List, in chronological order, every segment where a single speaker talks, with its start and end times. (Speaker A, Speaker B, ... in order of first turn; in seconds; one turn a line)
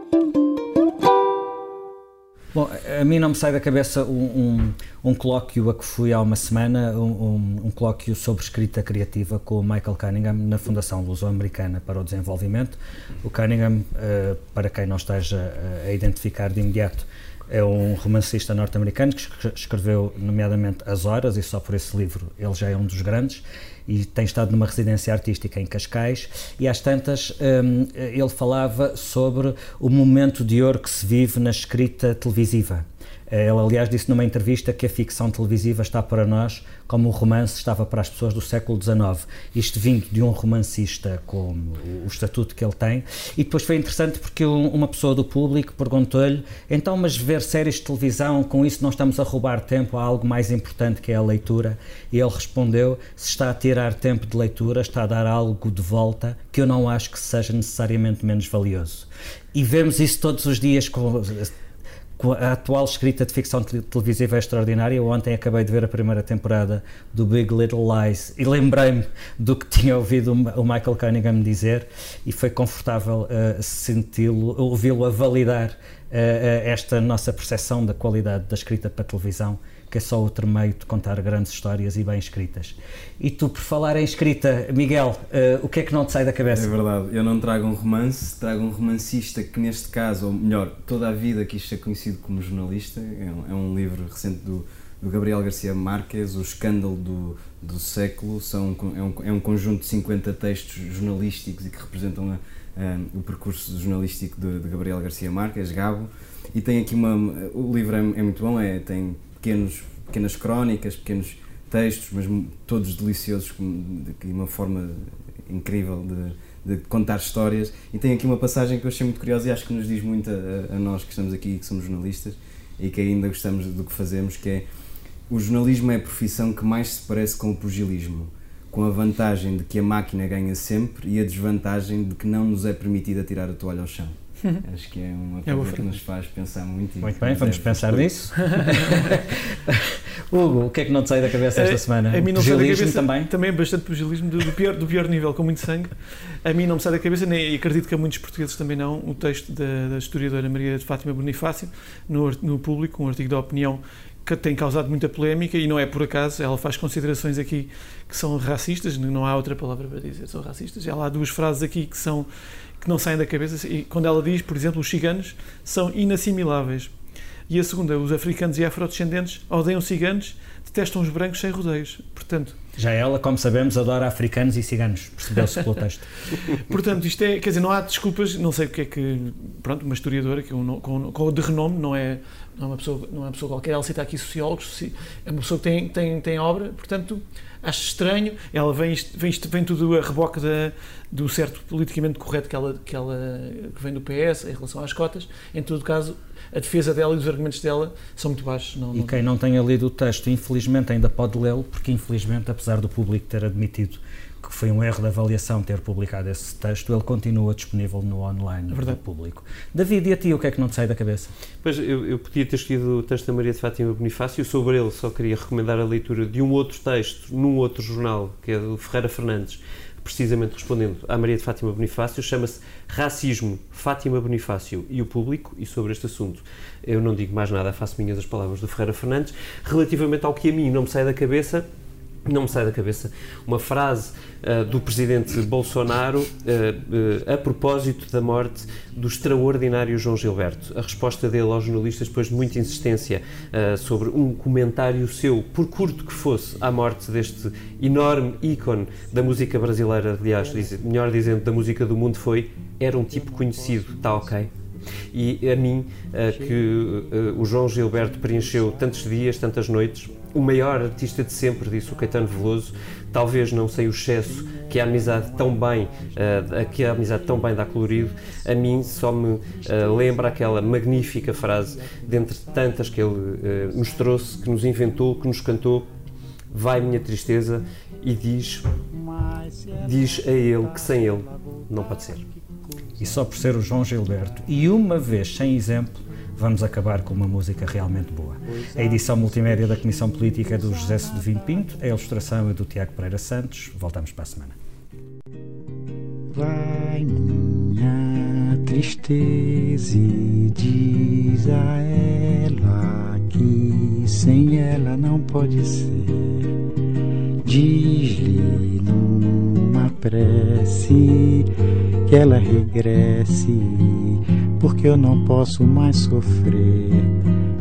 Speaker A: 2.5-61.5
Speaker A: 62.2-86.7
Speaker B: 86.5-124.7
Speaker B: 125.3-138.1
Speaker C: 135.4-135.9
Speaker A: 137.0-143.3
Speaker C: 138.3-139.1
Speaker C: 141.5-162.3
Speaker C: 162.8-166.9
Speaker C: 167.5-172.6
Speaker A: 172.8-176.1
Speaker C: 176.3-199.2
Speaker A: 198.9-211.3
Speaker C: 208.7-209.0
Speaker D: 211.6-231.7
Speaker D: 232.2-254.5
Speaker E: 242.7-243.1
Speaker E: 250.3-251.7
Speaker E: 252.8-254.6
Speaker D: 255.1-275.9
Speaker E: 256.2-275.9
Speaker D: 276.5-278.7
Speaker E: 278.8-284.7
Speaker D: 279.8-282.2
Speaker A: 283.0-294.6
Speaker E: 288.4-292.1
Speaker E: 296.3-306.5
Speaker E: 307.4-311.5
Speaker E: 312.1-317.1